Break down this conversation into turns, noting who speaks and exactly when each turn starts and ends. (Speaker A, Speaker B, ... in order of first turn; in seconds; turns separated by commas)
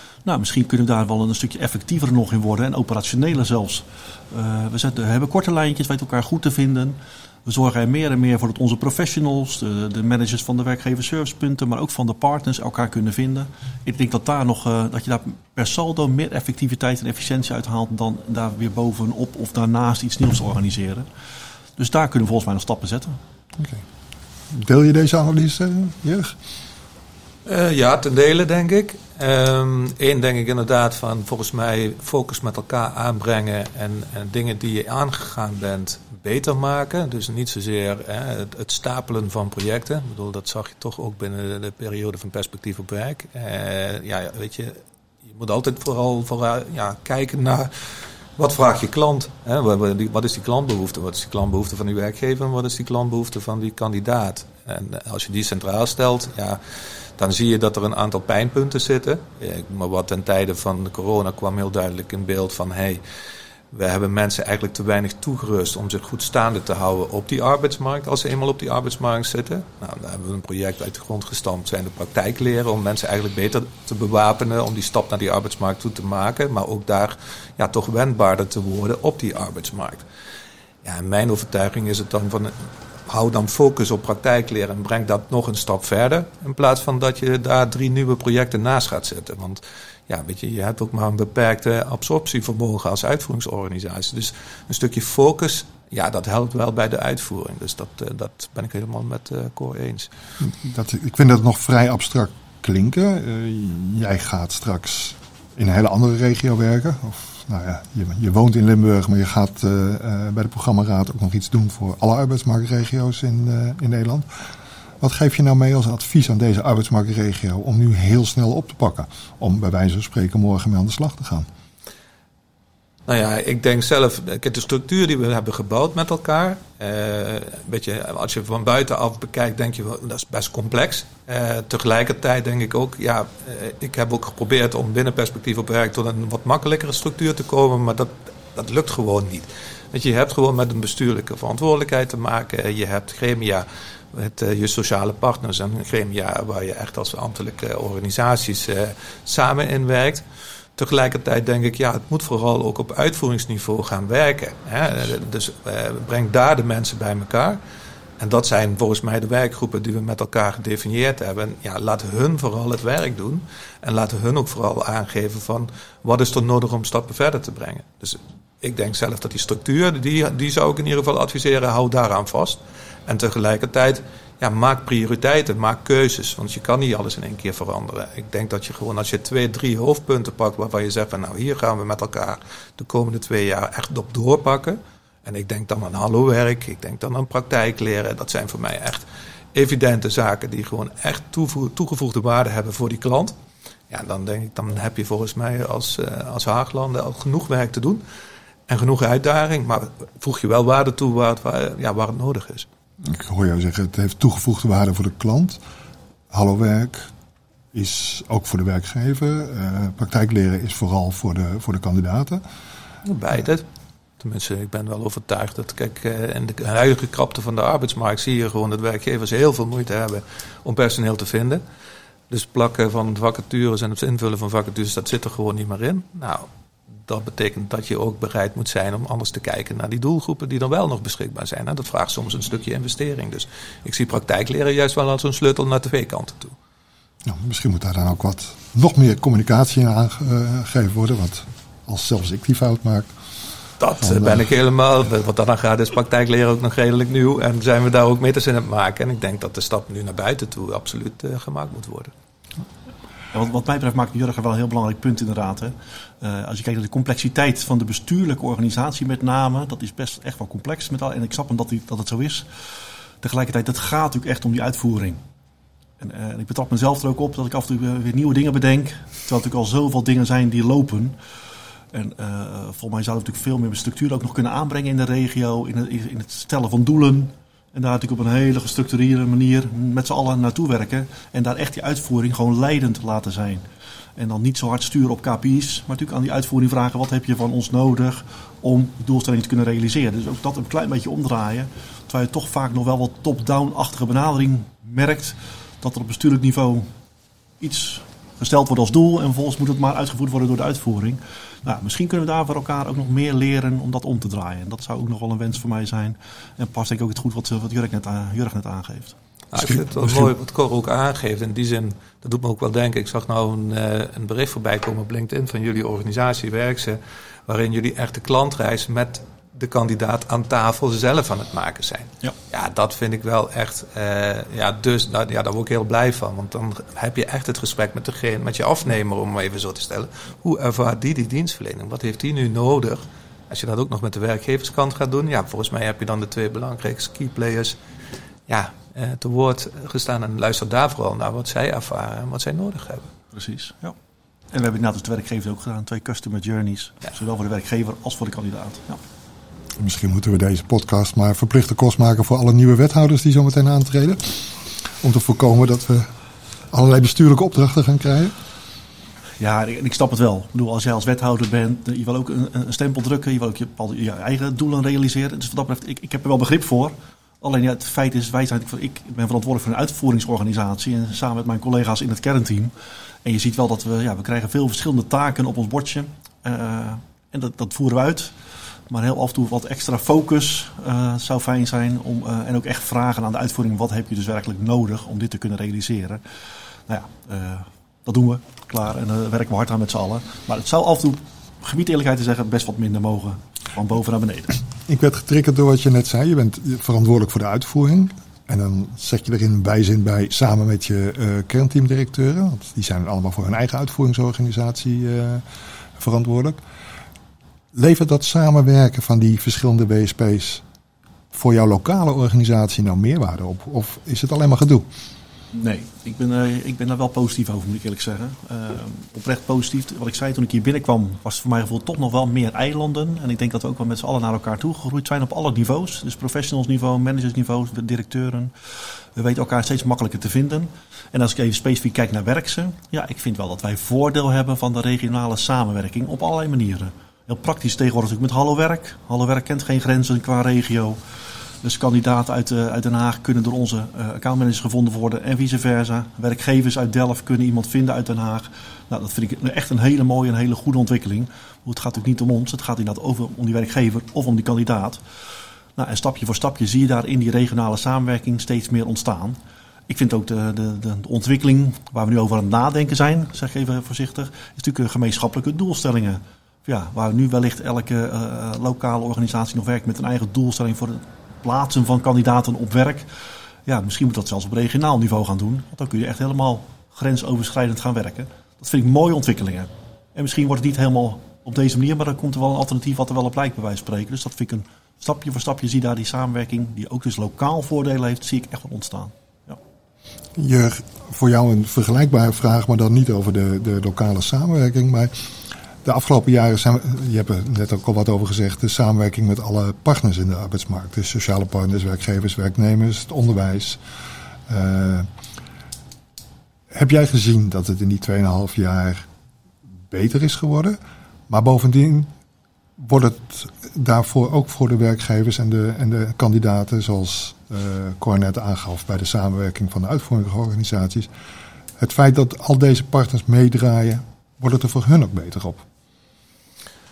Speaker A: 0.2-21.1, Speaker A: 21.8-23.2, Speaker B: 23.6-23.8, Speaker B: 24.5-26.4, Speaker C: 27.4-56.6, Speaker C: 57.2-63.0, Speaker C: 63.7-80.0, Speaker C: 80.8-82.5, Speaker C: 83.1-100.1, Speaker B: 100.4-114.3, Speaker B: 115.0-121.5, Speaker C: 123.1-150.2, Speaker C: 150.8-157.6, Speaker C: 158.2-193.3, Speaker C: 193.9-198.0, Speaker C: 198.7-202.7, Speaker B: 203.0-205.6, Speaker B: 206.3-207.1, Speaker B: 207.7-212.4, Speaker C: 213.0-213.6, Speaker C: 214.2-221.6, Speaker C: 222.3-226.5, Speaker C: 227.1-236.6, Speaker B: 237.2-243.1, Speaker C: 243.8-252.1, Speaker B: 244.0-244.4, Speaker A: 253.3-262.5, Speaker A: 263.2-265.2, Speaker A: 266.0-271.2, Speaker A: 271.9-283.6, Speaker A: 284.1-296.9, Speaker A: 297.6-309.1, Speaker C: 309.5-337.8, Speaker B: 309.6-310.3, Speaker C: 338.5-343.1, Speaker A: 343.3-343.9, Speaker A: 344.5-349.0, Speaker B: 349.8-356.1, Speaker B: 356.7-358.3, Speaker A: 359.4-372.7, Speaker A: 373.2-378.3, Speaker A: 378.9-386.2, Speaker A: 386.9-394.6, Speaker B: 394.9-405.4, Speaker B: 406.0-406.6, Speaker B: 407.7-410.6, Speaker B: 411.3-414.9, Speaker A: 415.5-441.0, Speaker A: 441.6-455.0, Speaker A: 455.8-473.1, Speaker A: 473.6-489.6, Speaker B: 490.4-495.3, Speaker B: 495.8-503.8, Speaker B: 504.5-505.1, Speaker B: 506.7-509.1, Speaker B: 509.9-510.8, Speaker B: 511.3-512.1, Speaker B: 512.8-521.1, Speaker B: 521.8-525.6